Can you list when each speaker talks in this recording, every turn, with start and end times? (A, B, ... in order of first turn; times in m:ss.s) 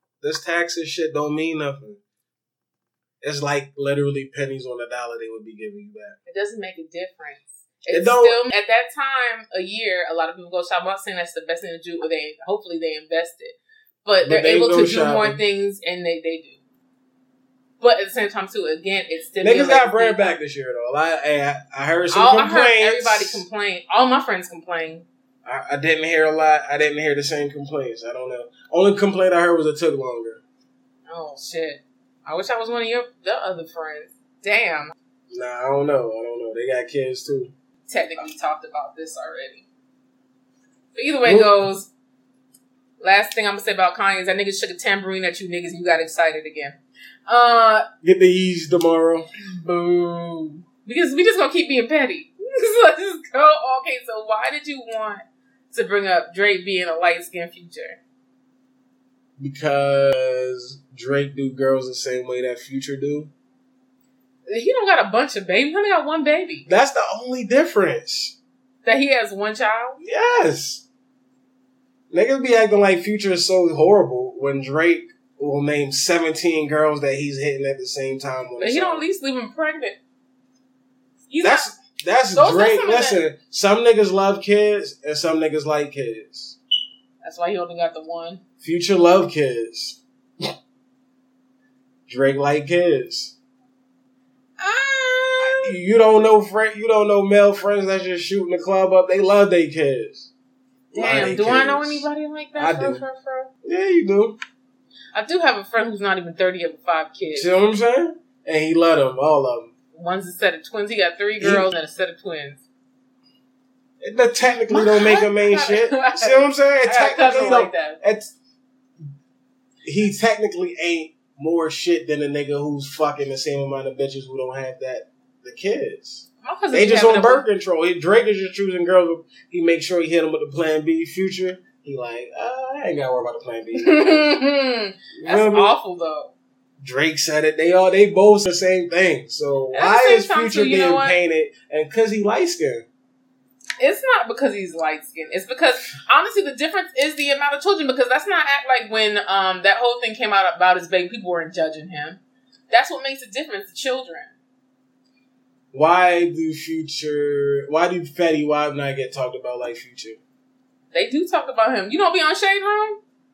0:00.2-0:02.0 A
0:03.2-0:06.2 A
0:06.2-0:16.6 B
0:07.9-0:08.4 A
0:14.2-0:15.4 A
0:17.8-0:20.4 B
0:19.4-0:23.4 A
0:22.1-0:25.0 B
0:25.4-0:30.4 A
0:31.1-0:34.9 B
0:35.3-0:37.5 A
0:37.9-0:39.6 B
0:40.9-0:41.9 B
0:41.2-0:41.6 A
0:43.0-0:47.8 B
0:48.0-0:49.3 A
0:49.4-0:58.0 B
0:59.4-1:03.3 A
1:04.5-1:06.7 B
1:06.7-1:08.4 A
1:08.8-1:10.0 B
1:10.0-1:10.8 A
1:12.1-1:19.0 A
1:18.6-1:20.0 B
1:21.3-1:21.7 B
1:21.4-1:26.6 A
1:22.3-1:23.2 B
1:27.2-1:28.4 B
1:28.6-1:30.5 A
1:32.1-1:33.3 A
1:34.6-1:35.7 B
1:35.4-1:40.3 A
1:40.9-1:43.0 A
1:40.9-1:43.5 B
1:43.6-1:44.4 A
1:45.1-1:47.5 B
1:47.3-1:49.7 A
1:49.9-1:52.6 B
1:51.4-1:51.7 A
1:54.0-1:58.3 A
1:54.7-1:58.0 B
1:59.8-2:14.3 A
2:06.4-2:07.4 B
2:13.8-2:16.3 B
2:15.1-2:15.7 A
2:16.8-2:22.8 A
2:19.7-2:21.2 B
2:23.8-2:34.3 B
2:35.7-2:40.2 A
2:40.9-2:43.0 B